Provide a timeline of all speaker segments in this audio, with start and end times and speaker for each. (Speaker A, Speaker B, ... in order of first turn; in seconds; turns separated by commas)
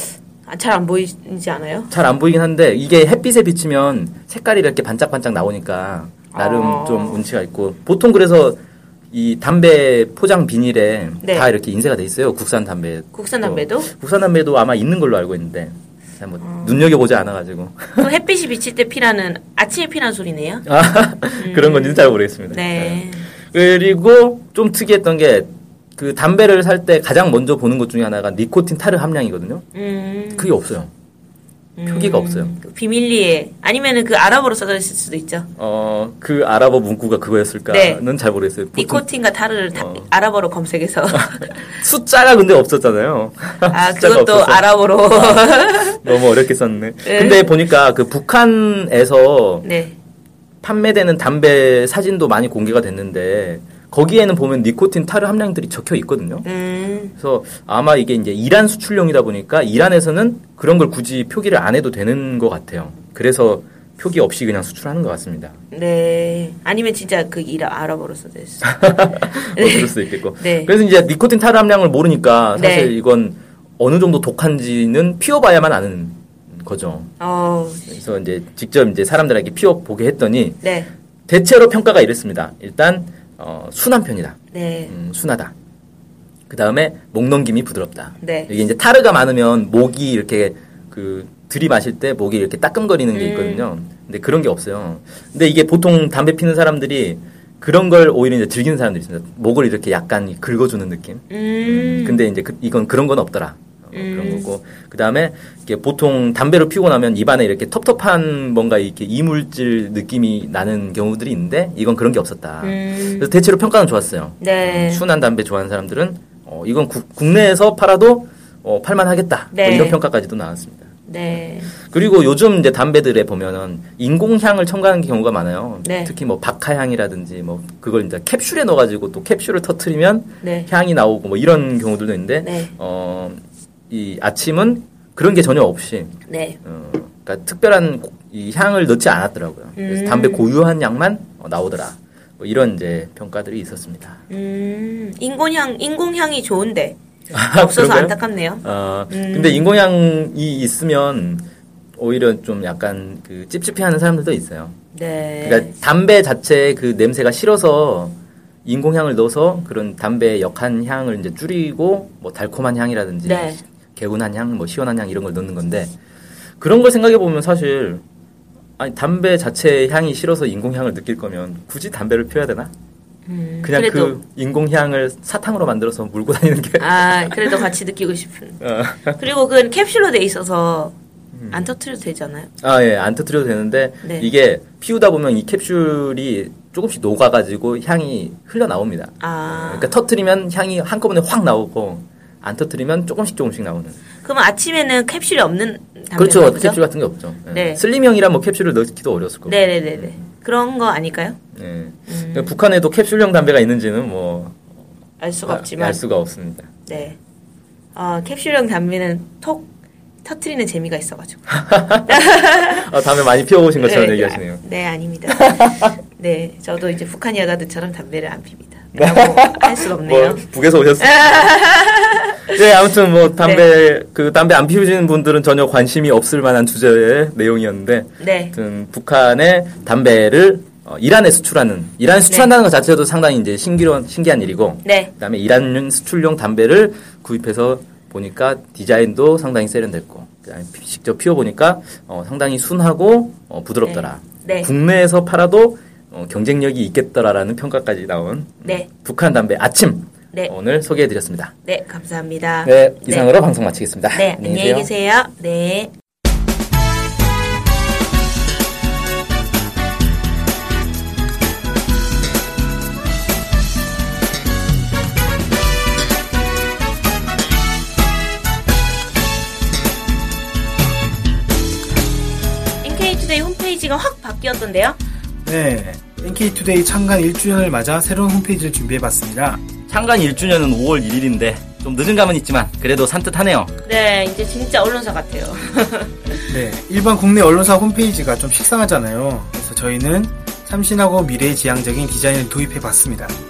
Speaker A: 0.5-1.9, Speaker B: 1.9-8.6, Speaker A: 6.3-7.2, Speaker B: 9.1-18.1, Speaker A: 11.2-11.5, Speaker A: 13.1-13.9, Speaker A: 16.4-16.9, Speaker A: 18.0-20.6, Speaker B: 20.6-29.6, Speaker A: 21.4-23.3, Speaker A: 29.7-30.5, Speaker B: 30.3-30.9, Speaker A: 31.8-35.5, Speaker B: 31.9-32.5, Speaker B: 35.6-39.0, Speaker A: 37.7-38.0, Speaker A: 38.8-41.7, Speaker B: 39.7-40.1, Speaker B: 41.1-49.7, Speaker A: 43.7-46.0, Speaker A: 47.0-47.4, Speaker A: 49.6-49.9, Speaker B: 50.6-56.5, Speaker A: 56.4-57.1, Speaker B: 57.2-65.5, Speaker A: 65.7-70.7, Speaker B: 68.6-77.1, Speaker A: 72.5-72.9, Speaker A: 77.2-78.0, Speaker B: 77.9-80.6, Speaker A: 80.6-80.9, Speaker B: 81.3-84.4, Speaker A: 84.5-84.9, Speaker B: 84.9-85.5, Speaker B: 86.5-120.9, Speaker A: 88.2-88.5, Speaker A: 93.1-93.7, Speaker A: 101.3-102.2, Speaker A: 103.9-104.5, Speaker A: 112.6-113.3, Speaker A: 114.4-115.0, Speaker A: 119.5-120.0, Speaker A: 121.1-121.7, Speaker B: 121.8-133.4, Speaker A: 125.8-126.1, Speaker A: 130.4-130.7, Speaker A: 132.4-132.7, Speaker B: 133.9-144.2, Speaker A: 136.3-136.6, Speaker A: 139.8-140.4, Speaker A: 144.3-147.0, Speaker B: 147.3-151.4, Speaker A: 147.5-149.7, Speaker B: 152.0-154.8, Speaker A: 154.9-155.7, Speaker B: 155.4-165.9, Speaker A: 163.2-163.6, Speaker B: 166.6-168.0, Speaker B: 168.8-172.7, Speaker A: 173.3-174.2, Speaker B: 173.6-177.7, Speaker A: 176.8-180.9, Speaker B: 178.6-179.2, Speaker B: 181.3-181.6, Speaker A: 181.5-182.5, Speaker B: 182.6-194.0, Speaker A: 184.0-184.3, Speaker A: 189.2-189.9, Speaker A: 194.2-196.8, Speaker B: 196.1-200.2, Speaker A: 197.5-197.8, Speaker A: 199.4-201.4, Speaker B: 201.5-204.6, Speaker A: 202.1-202.5, Speaker A: 205.2-206.0, Speaker B: 205.4-206.7, Speaker A: 206.8-207.2, Speaker A: 207.9-209.7, Speaker A: 210.2-212.9, Speaker B: 211.6-214.6, Speaker A: 213.8-220.4, Speaker B: 215.3-215.8, Speaker B: 218.9-221.5, Speaker A: 221.0-222.5, Speaker B: 222.5-251.5, Speaker A: 228.2-228.5, Speaker A: 234.8-235.1, Speaker A: 243.8-244.7, Speaker A: 251.6-253.3, Speaker B: 252.6-254.9, Speaker A: 254.1-255.9, Speaker A: 272.8-275.0, Speaker C: 275.4-279.6, Speaker B: 279.9-283.7, Speaker A: 283.8-286.4, Speaker C: 286.5-293.3